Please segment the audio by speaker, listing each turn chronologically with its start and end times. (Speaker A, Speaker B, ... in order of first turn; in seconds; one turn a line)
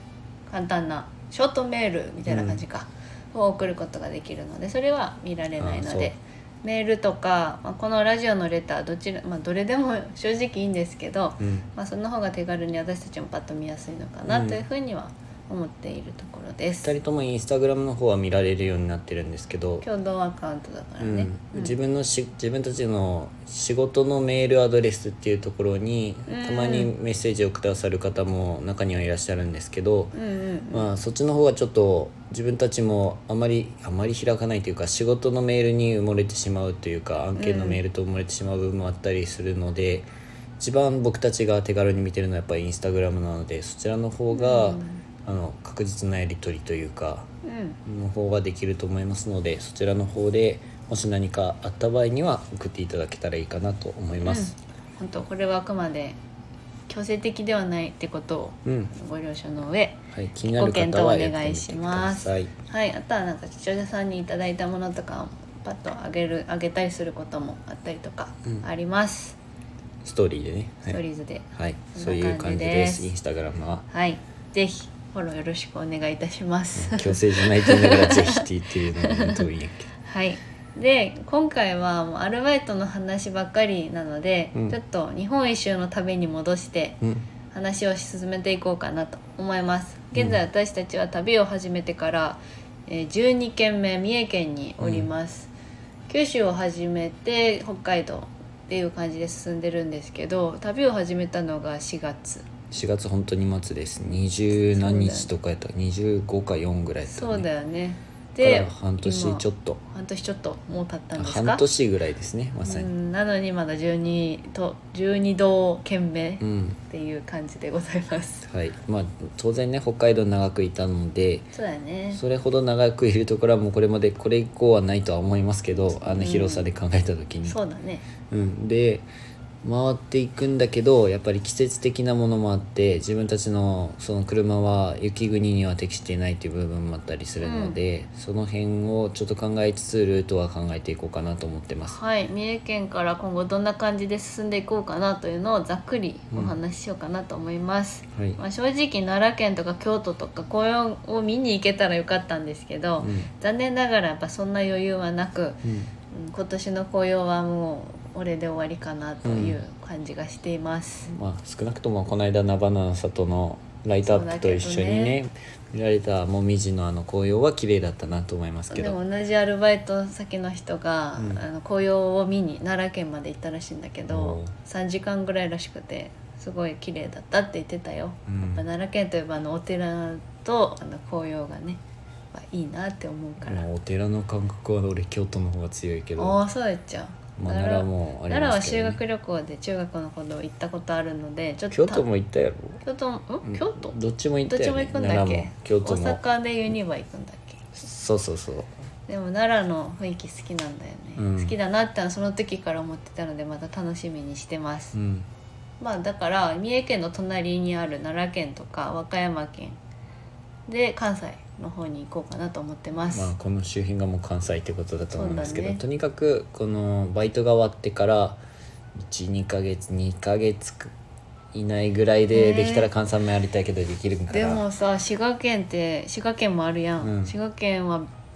Speaker A: 0.5-17.0
Speaker B: 2.3-2.6
Speaker B: 5.6-6.1
Speaker B: 11.4-11.7
Speaker B: 14.3-14.6
Speaker B: 16.8-19.9
Speaker A: 19.8-21.7
Speaker B: 21.0-30.1
Speaker A: 26.3-26.9
Speaker A: 30.1-30.9
Speaker B: 30.7-40.1
Speaker A: 37.4-37.8
Speaker B: 40.6-47.3
Speaker A: 44.3-45.0
Speaker A: 47.4-47.8
Speaker B: 47.9-54.5
Speaker A: 54.2-56.1
Speaker A: 56.9-69.4
Speaker B: 58.6-58.9
Speaker B: 60.1-62.5
Speaker B: 70.0-71.0
Speaker A: 70.9-73.1
Speaker B: 71.5-73.8
Speaker A: 73.9-78.5
Speaker B: 76.7-79.9
Speaker A: 79.0-79.4
Speaker A: 80.0-87.0
Speaker A: 87.5-95.5
Speaker B: 94.8-95.1
Speaker A: 96.1-102.5
Speaker B: 102.7-107.5
Speaker A: 104.8-105.3
Speaker A: 107.1-111.6
Speaker B: 108.4-109.8
Speaker B: 111.2-112.9
Speaker A: 112.6-118.4
Speaker B: 116.4-116.8
Speaker B: 118.4-121.5
Speaker A: 121.5-122.2
Speaker B: 122.1-127.6
Speaker A: 126.0-126.7
Speaker A: 127.5-128.1
Speaker B: 128.3-129.1
Speaker B: 129.6-142.0
Speaker A: 137.4-137.8
Speaker A: 141.9-161.1
Speaker B: 148.1-148.4
Speaker B: 153.0-153.3
Speaker B: 155.6-155.9
Speaker B: 159.2-159.6
Speaker B: 161.1-169.0
Speaker A: 164.1-165.2
Speaker A: 168.7-181.8
Speaker B: 171.2-171.4
Speaker B: 174.1-174.5
Speaker B: 178.3-178.6
Speaker A: 182.3-183.6
Speaker B: 183.4-186.4
Speaker A: 186.2-192.0
Speaker B: 187.4-189.0
Speaker B: 191.7-192.8
Speaker A: 192.8-193.9
Speaker B: 193.4-196.2
Speaker A: 194.5-197.6
Speaker B: 197.7-198.7
Speaker A: 199.1-204.9
Speaker B: 201.2-201.5
Speaker B: 204.9-205.3
Speaker A: 205.8-209.8
Speaker A: 210.7-213.3
Speaker B: 213.1-218.4
Speaker A: 215.1-215.8
Speaker B: 218.9-220.9
Speaker B: 221.5-224.6
Speaker A: 222.3-222.9
Speaker A: 224.3-228.1
Speaker B: 227.0-227.3